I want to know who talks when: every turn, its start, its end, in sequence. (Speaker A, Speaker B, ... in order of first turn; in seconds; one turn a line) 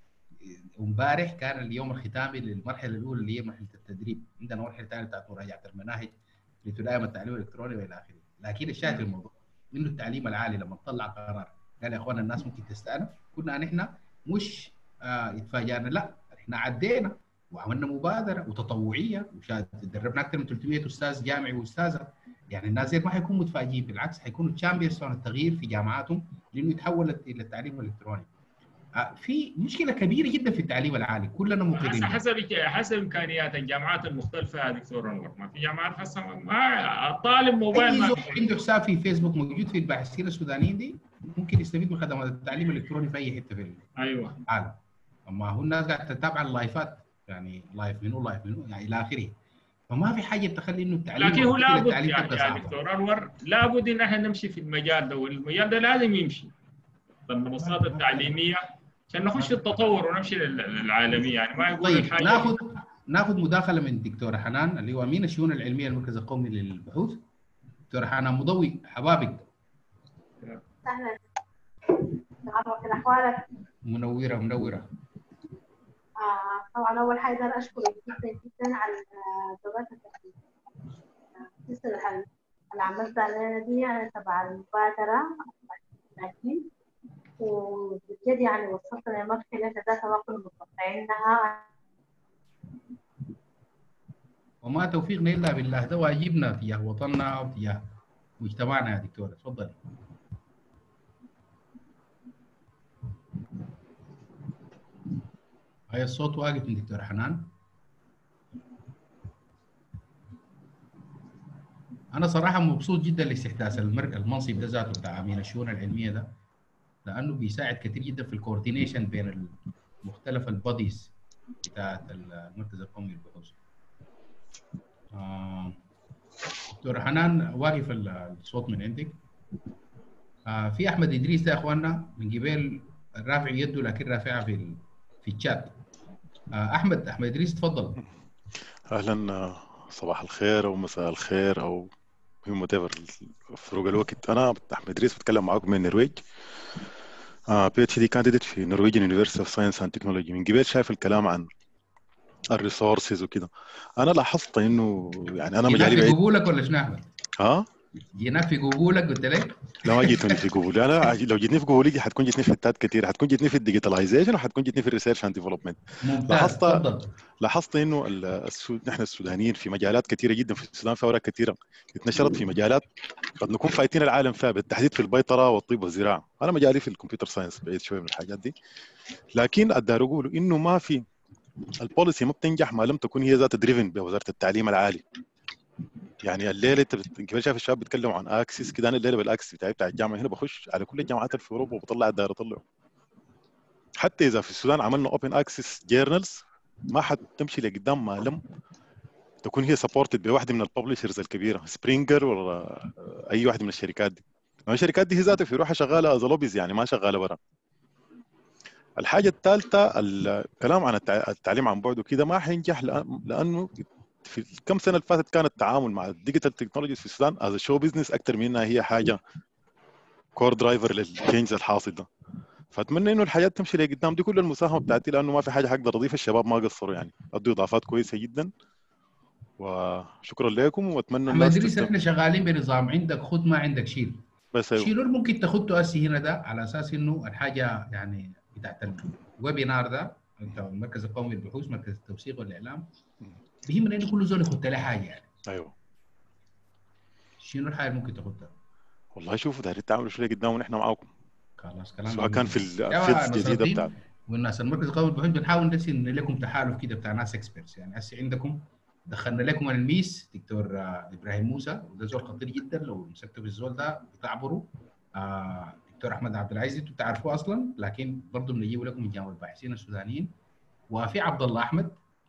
Speaker A: 0.4-28.3
Speaker A: 28.9-32.2
Speaker B: 31.8-38.5
Speaker A: 37.7-43.9
Speaker B: 44.0-44.4
Speaker A: 44.5-49.4
Speaker A: 49.9-52.8
Speaker B: 51.2-56.5
Speaker B: 57.3-62.5
Speaker A: 57.6-58.3
Speaker A: 59.4-59.8
Speaker A: 61.8-67.2
Speaker A: 67.9-69.5
Speaker C: 70.8-71.2
Speaker C: 72.4-73.5
Speaker A: 73.8-74.9
Speaker C: 76.2-80.4
Speaker C: 81.5-86.6
Speaker C: 87.4-91.7
Speaker A: 94.6-97.8
Speaker A: 98.4-99.8
Speaker A: 105.9-107.5
Speaker A: 112.1-116.3
Speaker A: 117.0-121.1
Speaker A: 121.6-123.6
Speaker A: 125.1-125.8
Speaker A: 126.7-129.2
Speaker A: 130.5-135.8
Speaker A: 136.5-138.0
Speaker D: 138.9-141.9
Speaker D: 142.4-146.2
Speaker D: 147.5-151.5
Speaker D: 152.5-156.2
Speaker A: 155.7-157.1
Speaker D: 157.4-157.7
Speaker A: 158.2-159.7
Speaker D: 159.8-166.8
Speaker A: 166.0-167.1
Speaker D: 167.4-172.9
Speaker D: 173.4-178.5
Speaker D: 179.3-181.1
Speaker D: 181.8-185.0
Speaker D: 186.2-192.6
Speaker D: 194.0-198.4
Speaker D: 199.4-207.4
Speaker D: 209.0-219.2
Speaker D: 220.4-222.1
Speaker D: 222.7-228.5
Speaker D: 229.6-231.9
Speaker A: 231.3-234.2
Speaker D: 234.5-234.9
Speaker A: 234.8-242.9
Speaker A: 243.7-245.3
Speaker D: 245.5-245.7
Speaker A: 247.4-248.5
Speaker D: 249.2-251.1
Speaker A: 251.6-270.3
Speaker D: 252.1-253.9
Speaker A: 270.9-272.0